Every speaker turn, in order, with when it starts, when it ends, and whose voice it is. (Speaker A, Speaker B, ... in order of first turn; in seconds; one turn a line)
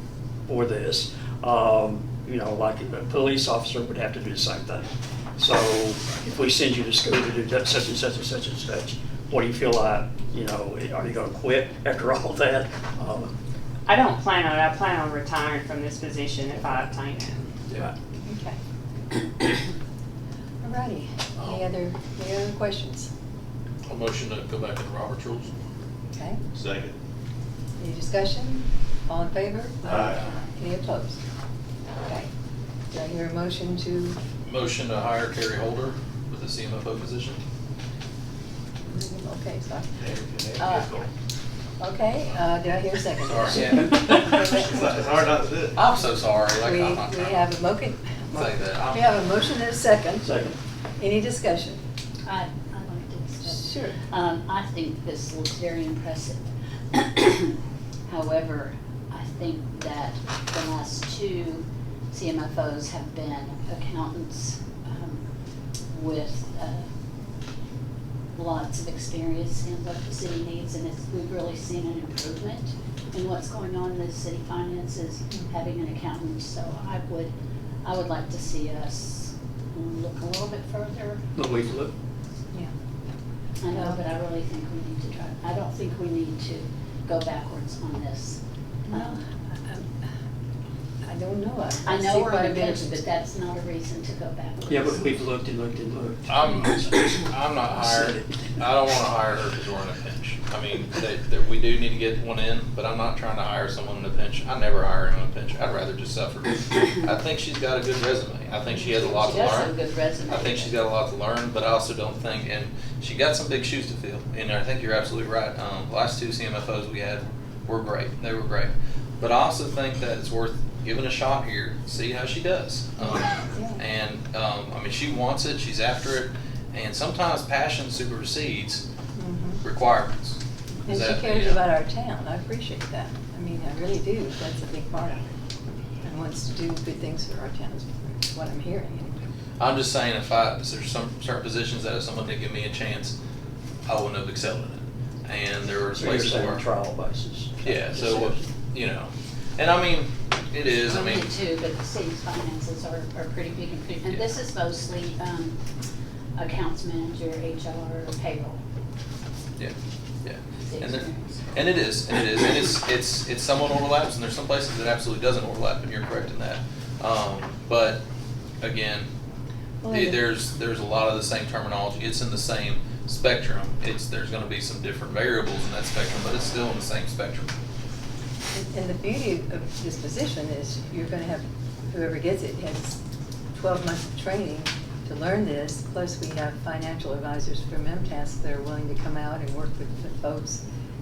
Speaker A: 0.5-4.8
Speaker A: 5.4-13.3
Speaker B: 13.8-17.6
Speaker C: 18.2-18.6
Speaker C: 20.6-23.1
Speaker D: 23.9-25.5
Speaker C: 26.1-26.4
Speaker E: 26.5-26.9
Speaker C: 27.8-31.2
Speaker E: 29.9-30.2
Speaker C: 32.0-32.3
Speaker C: 32.9-34.2
Speaker D: 34.4-37.4
Speaker C: 38.8-39.9
Speaker E: 40.0-41.1
Speaker F: 40.6-40.9
Speaker C: 41.8-45.1
Speaker D: 43.2-44.4
Speaker A: 43.5-44.6
Speaker E: 44.5-45.8
Speaker D: 45.7-47.4
Speaker C: 46.6-50.3
Speaker D: 48.3-49.0
Speaker A: 50.2-50.6
Speaker C: 51.0-51.8
Speaker F: 52.2-57.5
Speaker C: 53.4-54.0
Speaker F: 58.1-65.2
Speaker F: 65.9-66.9
Speaker F: 68.3-77.3
Speaker F: 77.8-81.2
Speaker A: 81.3-81.9
Speaker F: 83.6-89.2
Speaker C: 83.7-84.0
Speaker C: 88.9-89.9
Speaker C: 91.0-93.1
Speaker F: 91.8-95.1
Speaker A: 94.7-96.9
Speaker D: 96.3-109.8
Speaker A: 97.7-98.5
Speaker F: 108.7-110.8
Speaker D: 110.3-128.8
Speaker C: 123.1-123.8
Speaker C: 129.2-129.6
Speaker D: 129.6-131.6
Speaker C: 130.8-135.3
Speaker C: 136.0-139.2
Speaker D: 139.6-143.1
Speaker D: 143.8-146.6
Speaker A: 145.9-148.5
Speaker D: 147.6-151.3
Speaker F: 150.8-155.5
Speaker D: 154.0-154.3
Speaker F: 156.3-158.6
Speaker D: 159.6-168.0
Speaker F: 160.6-161.4
Speaker D: 168.6-169.1
Speaker C: 169.8-170.2
Speaker D: 169.9-177.5
Speaker C: 178.5-183.0
Speaker C: 183.5-190.6